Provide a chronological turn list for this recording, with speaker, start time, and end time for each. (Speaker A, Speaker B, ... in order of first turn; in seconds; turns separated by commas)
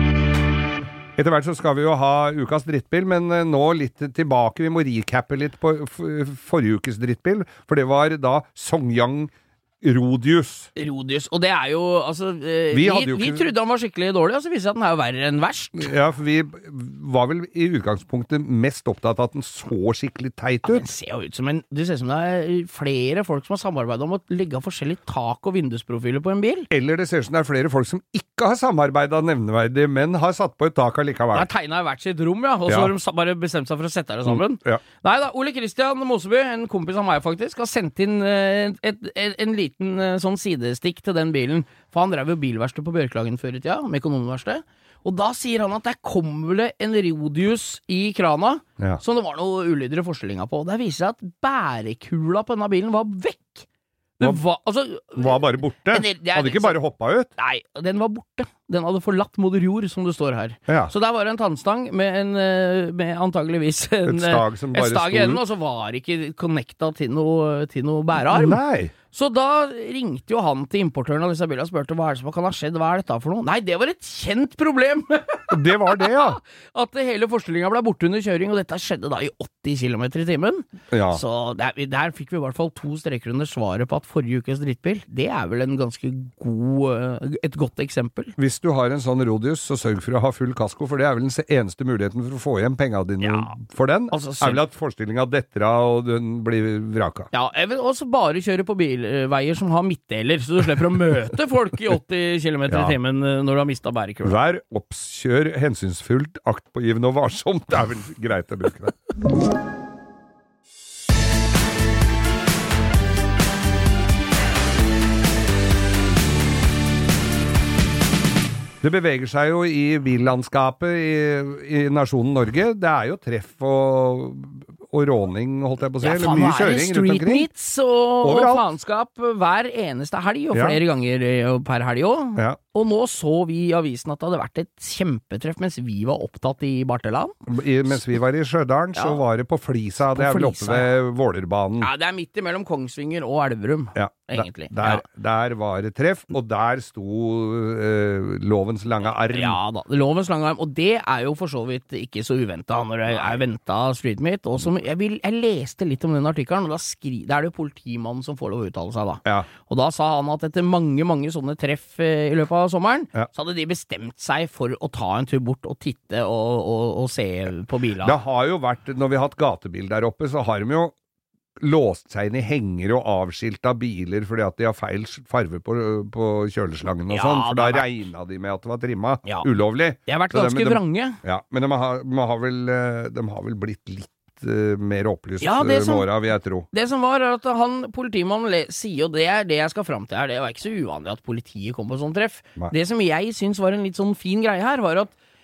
Speaker A: 1.2-10.7, Speaker B: 10.8-15.9, Speaker A: 12.7-13.5, Speaker A: 15.8-20.9, Speaker B: 20.6-26.7, Speaker A: 26.7-31.5, Speaker B: 31.3-53.6, Speaker A: 32.7-32.9, Speaker A: 34.2-34.8, Speaker B: 54.2-56.8, Speaker A: 55.1-57.3, Speaker B: 57.4-88.3, Speaker A: 64.0-65.4, Speaker A: 68.2-68.9, Speaker A: 75.5-76.4, Speaker A: 80.9-81.2, Speaker A: 88.4-97.3, Speaker B: 93.2-93.5, Speaker B: 94.1-94.6, Speaker B: 97.3-104.4, Speaker A: 102.7-102.9, Speaker A: 104.2-109.0, Speaker A: 118.8-127.5, Speaker B: 126.0-137.3, Speaker A: 128.2-128.6, Speaker A: 130.5-130.8, Speaker A: 137.5-141.9, Speaker B: 138.9-139.2, Speaker B: 140.1-140.9, Speaker B: 141.8-145.0, Speaker A: 143.9-149.6, Speaker B: 149.3-168.2, Speaker A: 168.0-170.9, Speaker A: 171.6-186.7, Speaker B: 177.1-177.9, Speaker B: 180.1-181.2, Speaker B: 185.4-186.1, Speaker B: 186.7-195.1